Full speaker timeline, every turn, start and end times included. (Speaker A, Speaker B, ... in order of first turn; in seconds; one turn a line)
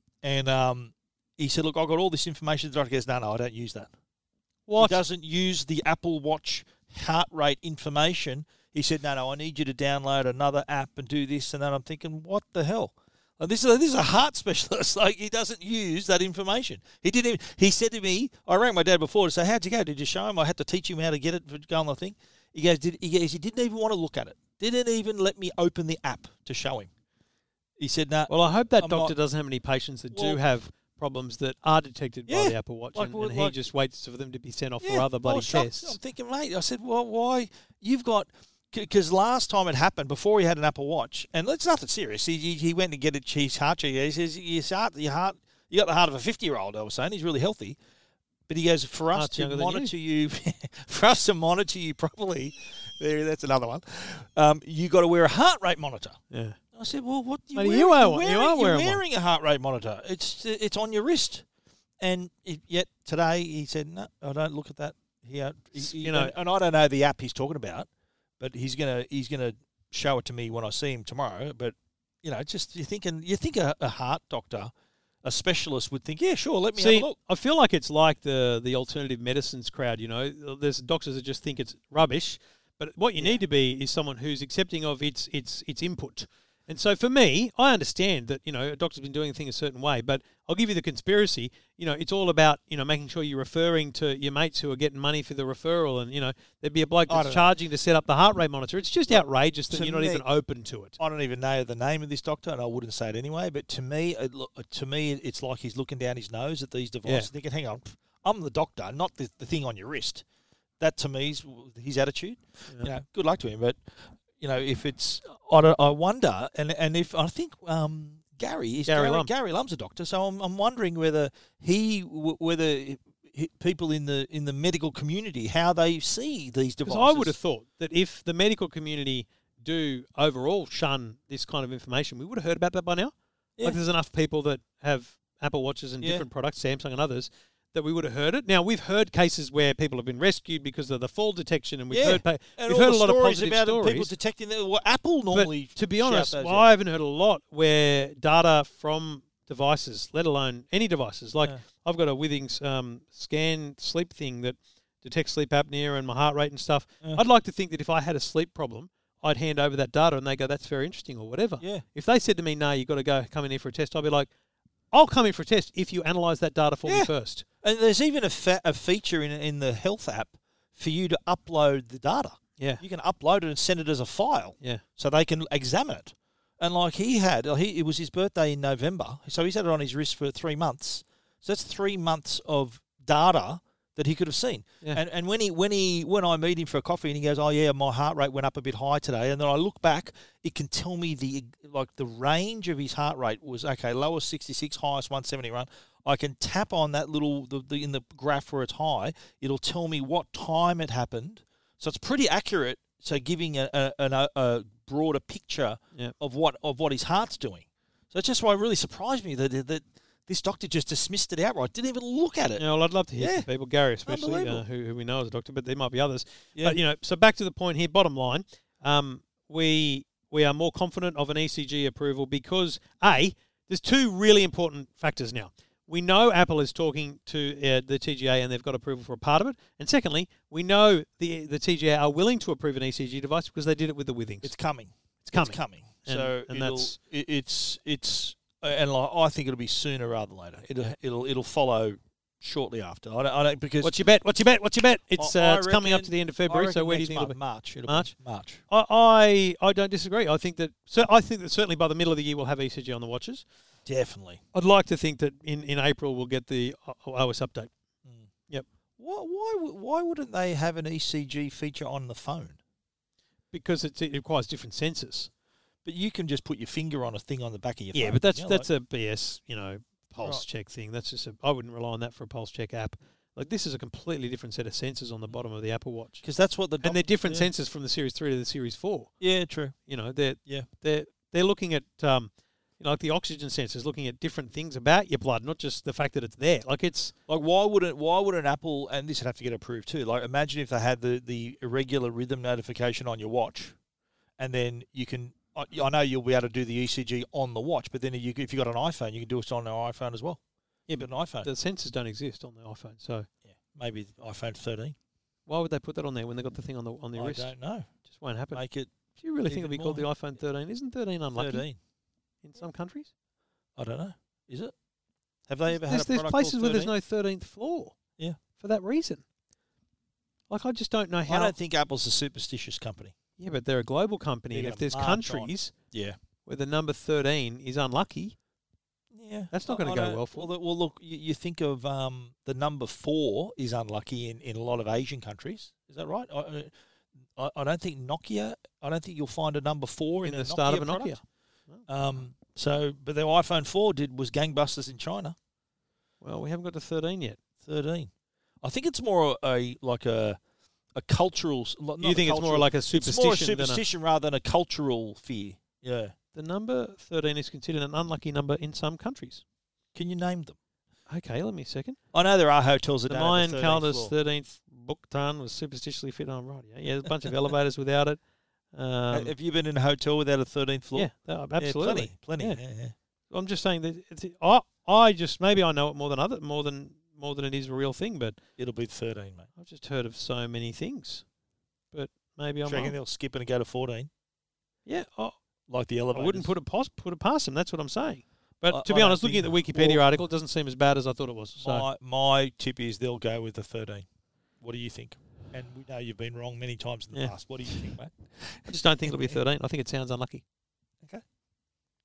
Speaker A: 0.2-3.9
Speaker B: 4.7-5.0
Speaker A: 4.8-26.9
Speaker A: 27.8-29.1
Speaker B: 28.3-36.0
Speaker A: 30.1-30.4
Speaker A: 32.3-33.6
Speaker A: 34.8-47.8
Speaker A: 48.5-56.2
Speaker B: 49.1-49.9
Speaker B: 56.3-56.6
Speaker A: 56.7-61.5
Speaker B: 57.5-59.0
Speaker A: 62.0-67.9
Speaker B: 65.8-66.3
Speaker A: 68.4-74.7
Speaker A: 75.2-77.2
Speaker B: 76.8-101.0
Speaker A: 97.1-97.5
Speaker A: 99.1-100.3
Speaker A: 101.0-110.2
Speaker A: 110.8-127.4
Speaker B: 118.9-119.3
Speaker B: 126.8-144.1
Speaker A: 141.9-146.7
Speaker B: 145.3-164.3
Speaker B: 164.9-167.4
Speaker A: 166.9-167.1
Speaker A: 167.6-212.6
Speaker B: 172.6-172.8
Speaker B: 212.6-234.5
Speaker A: 213.2-213.5
Speaker A: 214.1-214.6
Speaker A: 234.4-243.9
Speaker B: 235.2-237.0
Speaker B: 243.8-248.1
Speaker A: 245.2-248.6
Speaker B: 248.7-253.4
Speaker A: 253.9-254.4
Speaker B: 254.5-257.7
Speaker A: 259.0-262.6
Speaker B: 263.5-265.3
Speaker A: 265.9-268.7
Speaker B: 267.9-276.2
Speaker A: 276.2-277.5
Speaker B: 276.8-279.1
Speaker A: 279.2-279.8
Speaker B: 279.9-287.1
Speaker A: 287.3-293.8
Speaker A: 294.4-300.4
Speaker B: 300.9-303.3
Speaker A: 301.0-301.5
Speaker A: 303.5-304.9
Speaker B: 305.5-307.5
Speaker A: 307.2-307.9
Speaker B: 308.1-308.6
Speaker A: 308.5-308.9
Speaker B: 309.2-311.6
Speaker A: 309.5-310.1
Speaker A: 311.4-311.8
Speaker B: 312.4-313.1
Speaker A: 313.8-314.7
Speaker A: 315.5-316.9
Speaker B: 315.7-318.0
Speaker B: 318.6-319.2
Speaker B: 320.5-321.5
Speaker A: 321.3-323.1
Speaker B: 323.4-325.7
Speaker A: 324.5-326.2
Speaker B: 326.4-328.4
Speaker A: 329.1-336.7
Speaker B: 329.5-330.5
Speaker A: 337.4-341.2
Speaker B: 340.2-341.2
Speaker A: 341.9-345.4
Speaker B: 346.2-347.4
Speaker A: 347.6-348.1
Speaker A: 348.6-350.4
Speaker A: 350.9-356.1
Speaker B: 352.0-353.8
Speaker B: 356.3-359.4
Speaker A: 359.9-360.6
Speaker B: 361.1-362.0
Speaker A: 362.1-364.1
Speaker B: 363.1-368.2
Speaker B: 368.7-369.3
Speaker A: 369.1-372.9
Speaker B: 370.9-372.6
Speaker B: 373.3-378.4
Speaker A: 378.6-379.5
Speaker B: 379.6-381.2
Speaker B: 381.9-382.9
Speaker A: 382.7-384.1
Speaker B: 384.9-385.4
Speaker A: 385.7-386.5
Speaker B: 386.1-391.9
Speaker A: 388.7-390.1
Speaker A: 391.6-394.1
Speaker A: 394.6-399.4
Speaker B: 397.1-397.8
Speaker B: 398.7-400.4